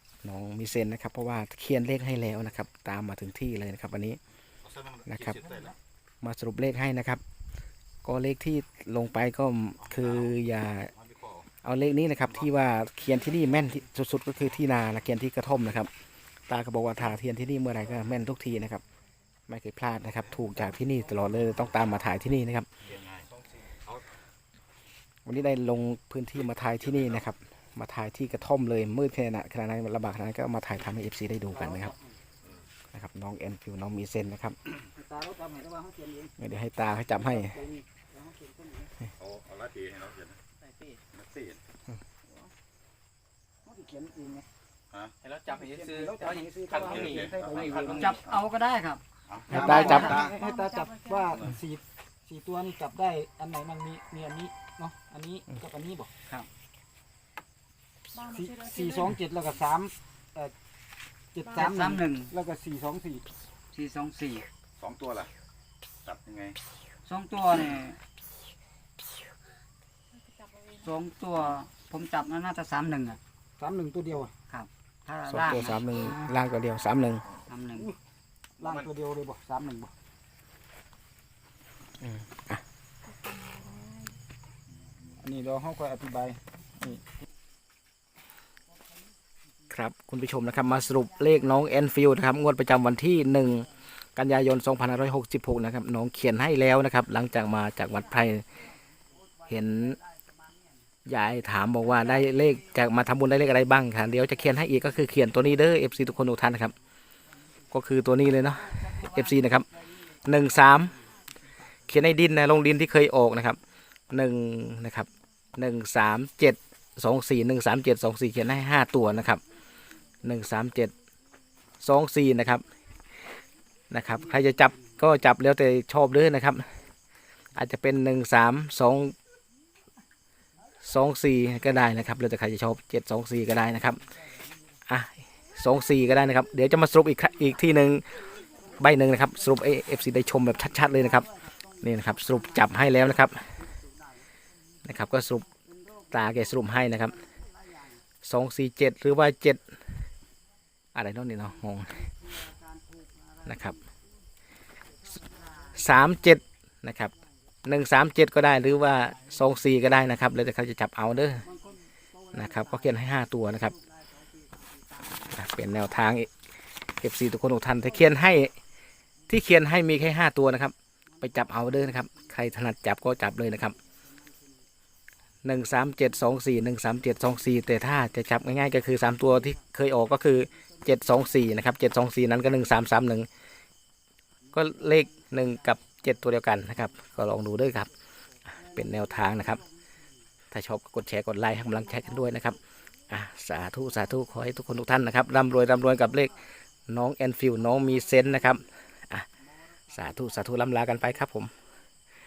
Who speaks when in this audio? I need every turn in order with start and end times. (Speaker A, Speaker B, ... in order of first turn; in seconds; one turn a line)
Speaker A: 0.2-4.2
Speaker B: 4.8-5.7
Speaker A: 5.1-5.5
Speaker A: 6.2-7.2
Speaker A: 8.0-10.9
Speaker A: 11.6-15.9
Speaker A: 16.5-18.8
Speaker A: 19.5-22.7
Speaker A: 25.3-31.9
Speaker C: 31.5-31.9
Speaker A: 32.9-34.6
Speaker C: 35.0-36.4
Speaker A: 36.4-37.6
Speaker C: 37.1-38.9
Speaker B: 39.2-40.4
Speaker B: 41.1-41.6
Speaker C: 43.7-44.5
Speaker D: 45.2-46.9
Speaker C: 45.5-48.1
Speaker B: 46.8-47.9
Speaker D: 47.4-48.1
Speaker E: 47.9-50.2
Speaker B: 49.3-50.3
Speaker A: 49.5-50.2
Speaker C: 49.5-56.1
Speaker F: 49.7-51.3
Speaker F: 58.1-59.1
Speaker C: 58.3-60.5
Speaker C: 61.4-63.3
Speaker E: 61.6-62.3
Speaker E: 63.7-64.5
Speaker B: 64.8-65.3
Speaker B: 66.1-66.6
Speaker E: 67.0-68.0
Speaker E: 70.8-73.2
Speaker C: 73.6-74.3
Speaker E: 74.5-75.8
Speaker A: 75.3-77.2
Speaker E: 77.5-77.9
Speaker C: 78.6-79.9
Speaker A: 82.0-82.6
Speaker F: 83.2-84.1
Speaker C: 85.2-87.0
Speaker A: 89.7-98.5
Speaker A: 99.5-100.0
Speaker A: 101.1-106.8
Speaker A: 107.7-109.7
Speaker A: 110.2-111.0
Speaker A: 111.9-113.6
Speaker A: 114.1-119.4
Speaker A: 120.2-120.9
Speaker A: 121.8-122.6
Speaker A: 123.9-126.7
Speaker A: 127.5-129.2
Speaker A: 130.8-134.0
Speaker A: 134.9-138.2
Speaker A: 138.8-141.3
Speaker E: 141.6-142.6
Speaker A: 141.8-143.6
Speaker A: 144.8-145.5
Speaker A: 146.1-147.2
Speaker A: 148.2-149.8
Speaker A: 150.9-152.1
Speaker A: 153.5-153.8
Speaker A: 155.7-157.1
Speaker A: 157.7-161.5
Speaker A: 162.3-163.8
Speaker A: 165.2-168.5
Speaker A: 169.3-173.8
Speaker A: 175.4-183.3
Speaker A: 184.5-187.9
Speaker A: 188.7-189.6
Speaker A: 190.5-196.4
Speaker A: 196.9-199.3
Speaker A: 199.9-201.5